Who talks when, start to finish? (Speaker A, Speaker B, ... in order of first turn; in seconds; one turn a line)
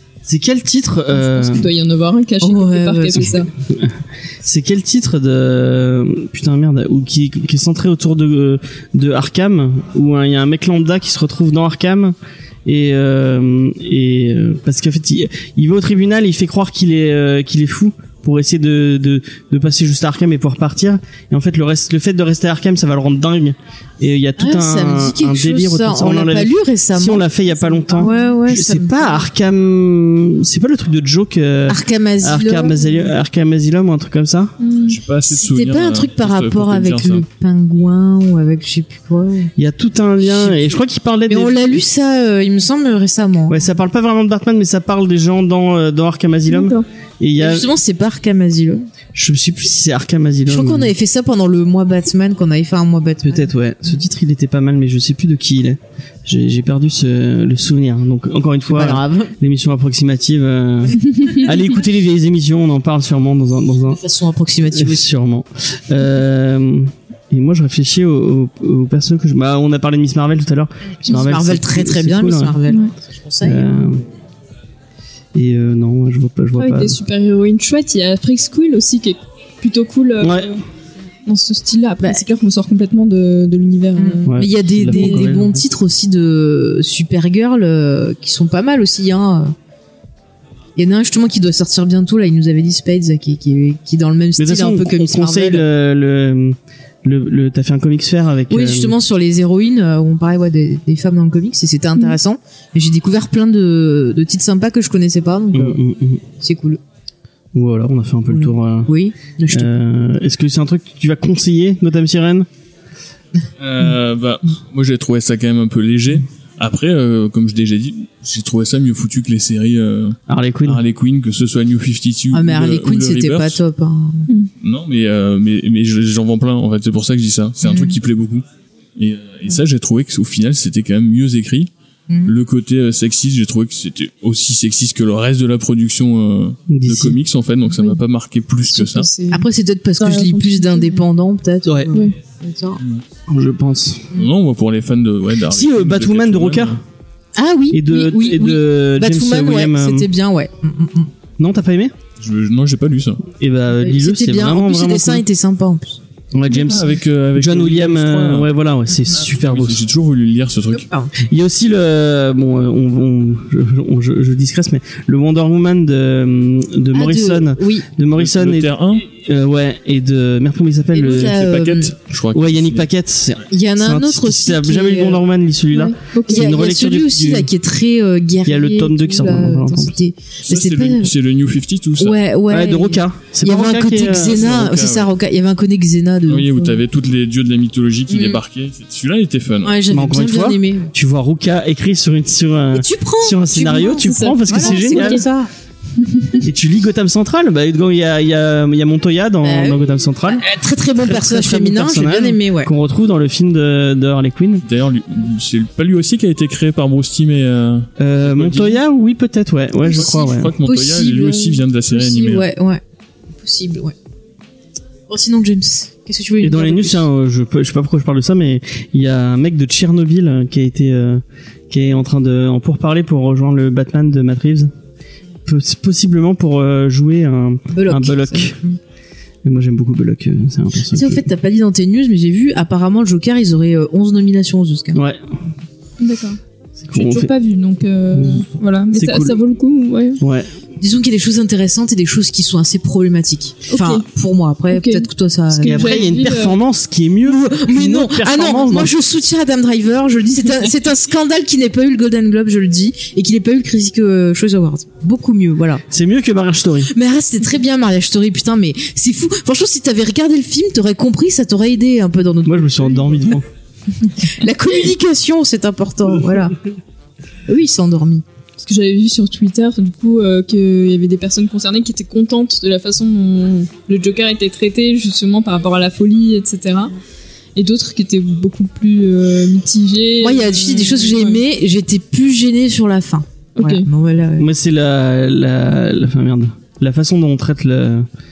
Speaker A: 0.2-1.7
Speaker B: 1.1-3.5
Speaker C: 2.4-3.3
Speaker A: 3.6-34.6
Speaker C: 24.4-29.2
Speaker B: 28.0-28.3
Speaker C: 31.7-33.1
Speaker B: 34.6-35.0
Speaker D: 34.8-37.2
Speaker C: 35.3-39.5
Speaker A: 39.6-41.8
Speaker C: 40.2-43.6
Speaker A: 43.5-47.7
Speaker B: 46.5-46.8
Speaker C: 47.4-48.8
Speaker A: 49.1-50.9
Speaker C: 50.5-53.5
Speaker A: 53.3-64.0
Speaker C: 58.7-59.3
Speaker C: 63.9-65.1
Speaker A: 64.7-72.6
Speaker C: 71.1-74.0
Speaker A: 73.4-74.0
Speaker A: 75.3-77.0
Speaker B: 76.6-80.6
Speaker A: 80.2-80.5
Speaker B: 81.2-84.3
Speaker C: 84.0-89.5
Speaker A: 84.2-85.6
Speaker B: 84.9-85.3
Speaker C: 90.8-95.7
Speaker A: 94.4-99.0
Speaker C: 98.5-105.8
Speaker A: 105.5-106.2
Speaker C: 106.4-106.8
Speaker A: 107.5-108.9
Speaker C: 108.3-109.7
Speaker A: 109.5-112.5
Speaker D: 113.6-123.6
Speaker A: 120.3-120.8
Speaker C: 122.3-124.3
Speaker D: 124.6-128.4
Speaker C: 127.6-128.0
Speaker D: 128.9-131.7
Speaker C: 132.1-132.3
Speaker D: 132.2-139.1
Speaker A: 136.7-137.2
Speaker B: 138.7-139.4
Speaker C: 139.3-142.8
Speaker B: 140.0-141.0
Speaker A: 141.7-141.9
Speaker A: 143.3-144.2
Speaker D: 144.1-146.8
Speaker A: 145.5-146.8
Speaker C: 147.3-151.1
Speaker A: 147.7-150.1
Speaker A: 151.4-151.9
Speaker D: 152.2-153.2
Speaker A: 153.3-155.2
Speaker C: 153.8-156.0
Speaker A: 156.3-159.8
Speaker D: 156.6-158.5
Speaker D: 159.1-160.8
Speaker C: 160.7-161.1
Speaker A: 161.2-171.4
Speaker C: 166.9-167.8
Speaker D: 168.2-169.1
Speaker C: 170.9-171.9
Speaker D: 171.1-172.9
Speaker A: 172.3-177.5
Speaker C: 173.5-175.2
Speaker B: 175.7-176.5
Speaker C: 176.3-181.1
Speaker A: 178.4-179.9
Speaker D: 180.4-182.2
Speaker C: 182.0-186.8
Speaker A: 182.5-184.5
Speaker D: 184.1-185.1
Speaker D: 186.3-189.8
Speaker C: 188.1-188.4
Speaker C: 189.6-190.9
Speaker A: 189.9-195.2
Speaker C: 192.7-195.5
Speaker B: 194.0-195.2
Speaker A: 196.4-200.4
Speaker C: 199.4-202.7
Speaker A: 201.0-204.6
Speaker D: 204.6-208.8
Speaker A: 208.0-210.5
Speaker D: 209.9-212.5
Speaker C: 210.6-212.8
Speaker C: 213.4-213.9
Speaker C: 215.1-217.1
Speaker A: 216.4-224.7
Speaker A: 225.4-228.6
Speaker C: 227.7-228.8
Speaker A: 229.4-231.2
Speaker C: 230.9-235.0
Speaker A: 234.9-235.3
Speaker B: 236.0-236.4
Speaker A: 236.8-237.3
Speaker B: 236.9-240.2
Speaker A: 238.1-239.4
Speaker A: 240.2-240.6
Speaker C: 240.8-246.0
Speaker B: 243.7-244.0
Speaker B: 244.7-246.6
Speaker A: 245.6-248.9
Speaker C: 247.2-255.8
Speaker A: 255.9-256.9
Speaker C: 256.9-263.3
Speaker A: 262.4-263.4
Speaker C: 264.2-266.6
Speaker C: 267.5-268.2
Speaker B: 268.6-276.9
Speaker B: 277.6-281.4
Speaker C: 280.2-284.5
Speaker B: 283.6-283.9
Speaker A: 284.4-288.1